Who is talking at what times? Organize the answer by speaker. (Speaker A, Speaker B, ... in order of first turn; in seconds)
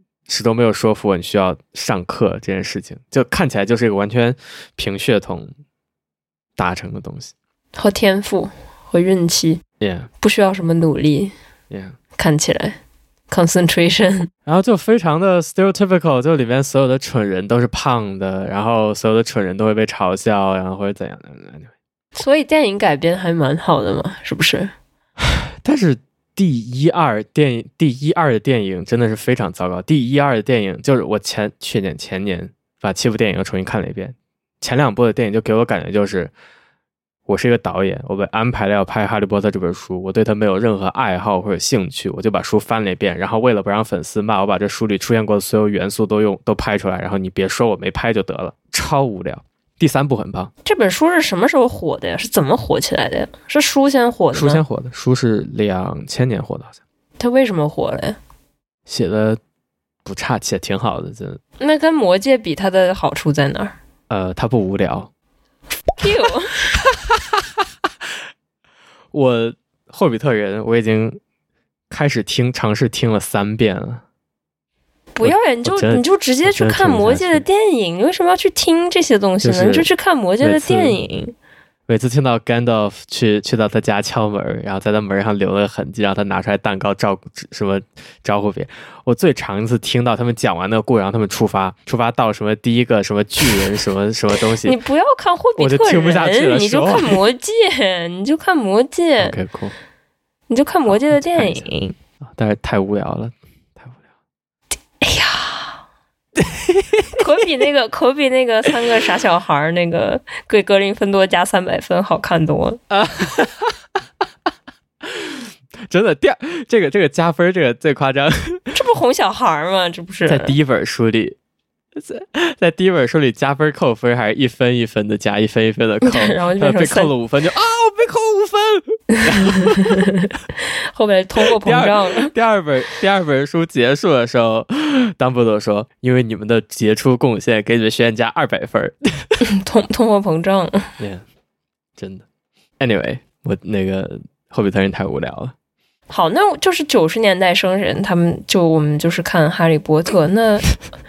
Speaker A: 0.3-5.5, 6.6-7.3, 9.8-10.1, 11.7-12.0, 14.4-21.7, 25.2-36.3, 37.3-50.5, 54.3-56.8, 58.9-59.4, 60.0-61.4, 64.1-65.1, 66.9-67.4, 69.1-71.2, 71.9-74.0, 75.2-77.5, 79.4-79.9, 80.4-81.0, 81.9-94.8, 95.6-97.2, 99.2-99.7, 100.9-101.7, 102.2-103.9, 106.4-107.2, 112.9-113.7, 115.0-118.7, 120.3-121.4, 122.0-130.0, 131.4-139.3, 142.0-142.2, 142.8-145.5
Speaker B: 7.7-9.6, 10.2-11.3, 12.2-12.8, 13.3-14.3, 22.1-24.7, 50.6-54.6, 57.2-58.2, 61.6-63.7, 66.0-66.6, 75.1-81.3, 94.6-99.3, 100.5-102.0, 105.0-105.8, 107.1-112.8, 118.7-120.5, 126.0-127.1, 129.1-132.3, 139.4-140.9, 146.1-150.7